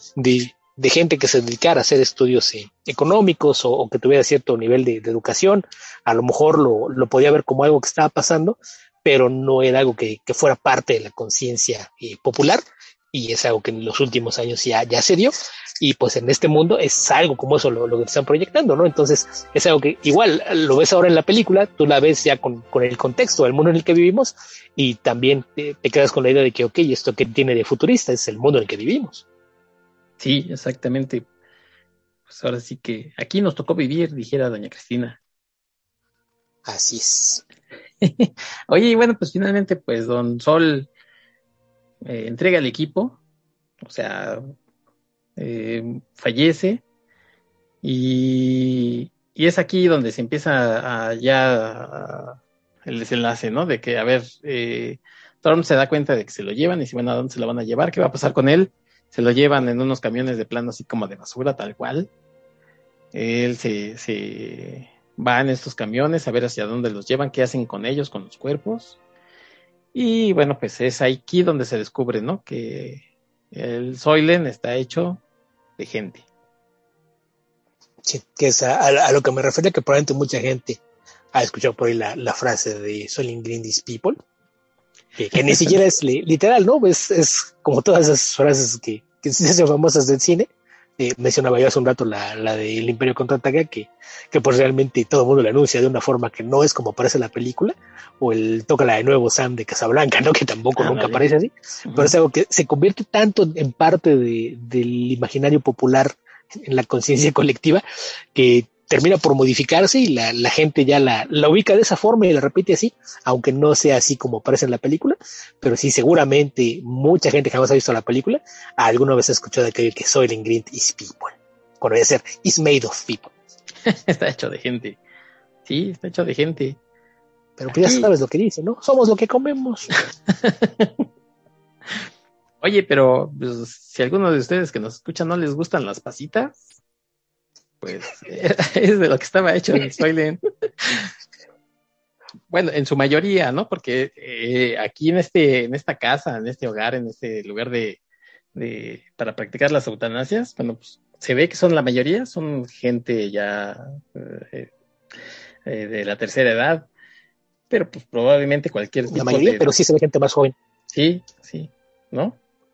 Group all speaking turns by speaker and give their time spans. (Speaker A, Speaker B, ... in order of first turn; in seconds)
Speaker A: 0.1-29.2, 36.6-37.4, 78.0-80.8, 81.3-84.2, 85.2-107.8, 108.3-123.3, 127.6-129.9, 159.1-160.5
Speaker B: 30.2-31.2, 32.3-35.2, 38.0-40.9, 42.0-43.2, 43.8-44.5, 45.4-46.8, 47.8-62.1, 63.1-69.0, 69.9-75.2, 75.8-76.2, 100.8-101.2, 101.8-102.2, 123.8-125.0, 125.6-126.8, 127.7-128.1, 130.3-131.0, 132.6-136.6, 137.8-141.1, 142.5-148.0, 148.5-154.7, 155.6-156.9, 157.7-159.7, 160.9-162.4